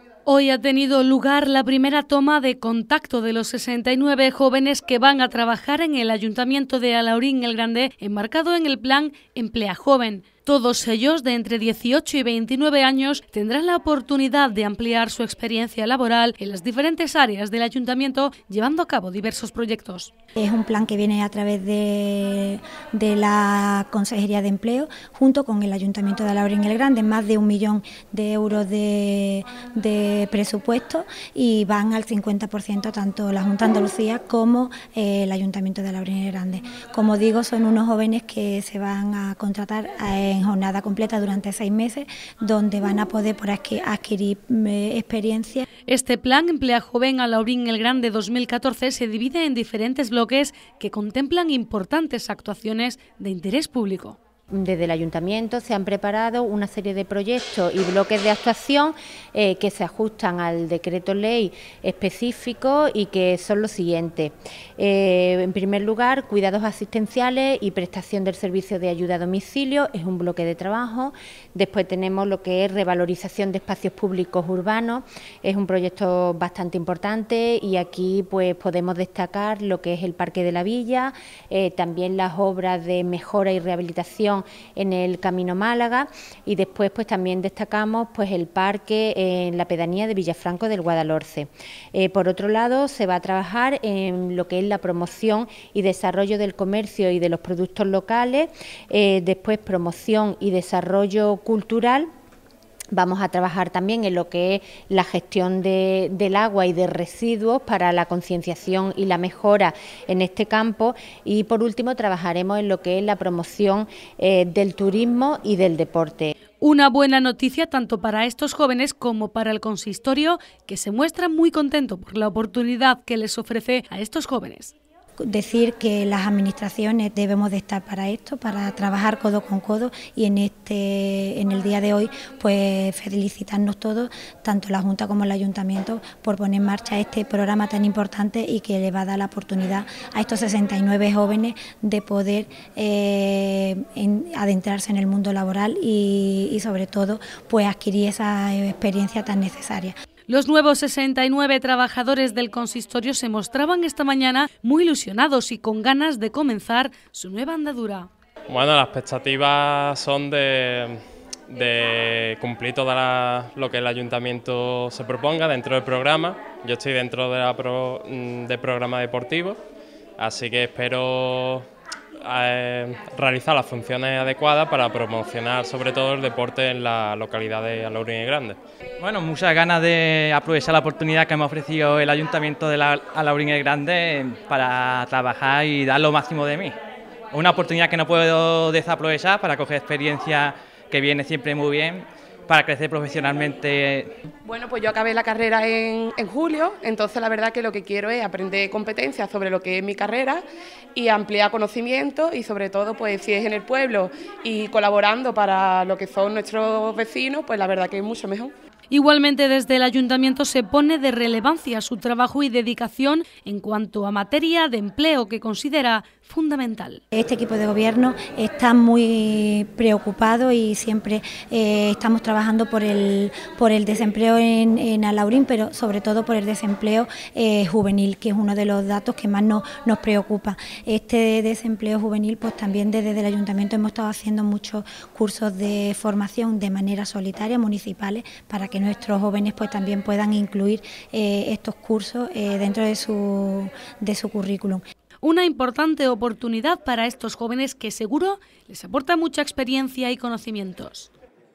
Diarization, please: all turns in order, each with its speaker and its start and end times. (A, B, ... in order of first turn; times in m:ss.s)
0:00.2-0:20.1 A
0:20.4-0:45.6 B
0:45.9-0:54.2 A
0:54.5-1:42.1 C
1:42.9-1:56.3 C
1:56.6-2:04.7 A
2:05.2-2:30.0 B
2:30.3-2:38.1 A
2:38.5-2:49.6 D
2:50.2-2:51.6 D
2:52.2-2:58.6 D
2:59.0-3:06.8 E
3:07.3-3:14.1 E
3:14.4-3:20.4 F
3:20.9-3:28.5 F
3:28.9-3:37.0 A
3:37.1-4:04.8 B
4:05.2-4:11.1 A